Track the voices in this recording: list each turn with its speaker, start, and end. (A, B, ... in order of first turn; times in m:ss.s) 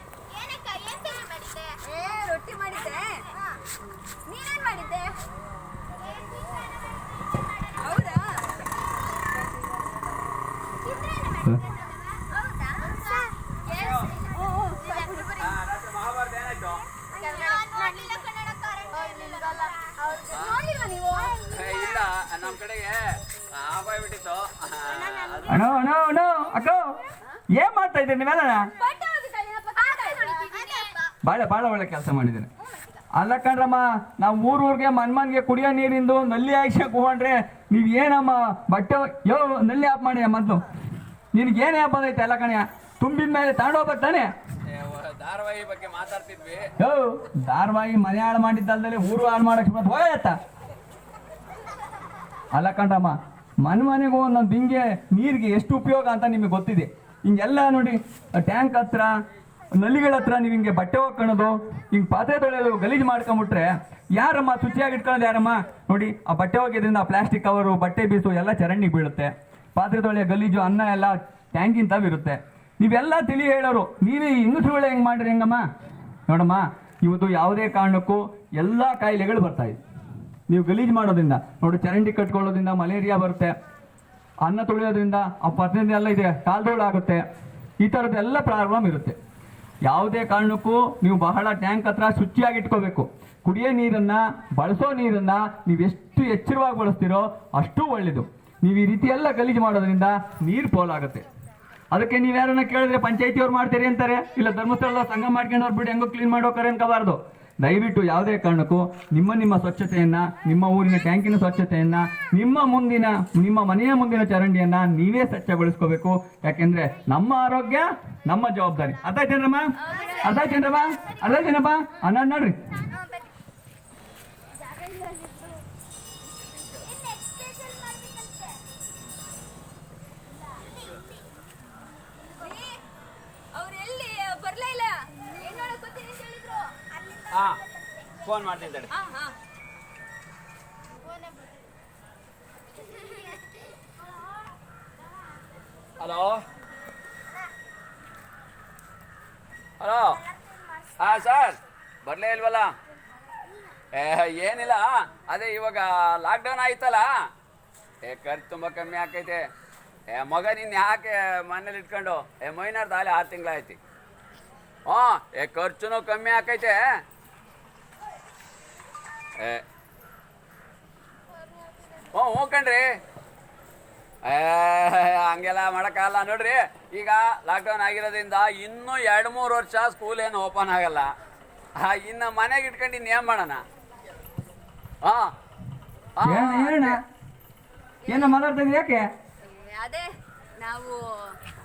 0:00.3-0:01.8 A
0:01.8-0:03.2 B
0:03.3-0:03.6 A
0:04.3-0:05.1 B
0:06.0-0:08.1 A
0:07.8-0:08.4 B
0:08.6-0:09.4 A
0:10.8-0:15.5 A
0:12.3-0:15.5 B
0:13.7-0:14.1 C
0:15.4-0:16.8 C
0:17.1-0:22.0 A
0:17.2-0:18.0 B
0:19.0-0:21.4 B
0:20.3-0:20.6 C
0:21.5-0:25.6 C
0:24.9-0:25.7 A
0:25.5-0:26.9 D
0:27.5-0:28.6 D
0:28.8-0:30.8 B
0:29.8-0:31.0 A
0:31.2-0:32.5 D
0:33.1-0:40.6 D
0:41.3-0:44.3 D
0:44.7-0:46.7 C
0:46.8-0:50.4 D
0:52.5-0:59.1 D
0:59.7-1:15.6 D
1:16.3-1:19.8 D
1:20.5-1:23.5 D
1:24.4-1:27.2 D
1:27.8-1:29.2 D
1:29.8-1:41.2 D
1:41.9-2:02.6 D
1:59.8-2:00.8 B
1:59.9-2:01.4 A
2:02.8-2:03.3 A
2:04.6-2:05.6 B
2:06.8-2:08.6 A
2:10.5-2:11.2 A
2:12.3-2:12.8 B
2:13.5-2:16.7 B
2:17.0-2:17.3 A
2:17.3-2:17.6 C
2:18.2-2:18.9 C
2:18.9-2:19.3 B
2:21.1-2:21.4 A
2:26.0-2:26.4 C
2:29.8-2:30.2 C
2:31.0-2:32.7 C
2:33.9-2:37.1 C
2:38.0-2:39.4 C
2:40.1-2:43.8 C
2:44.9-2:46.8 C
2:49.4-2:49.6 C
2:52.1-2:52.8 C
2:54.2-3:01.1 C
3:01.8-3:03.6 C
3:05.0-3:05.3 C
3:06.2-3:07.0 C
3:06.2-3:07.0 D
3:08.0-3:08.4 B
3:08.1-3:09.1 D
3:09.4-3:11.4 B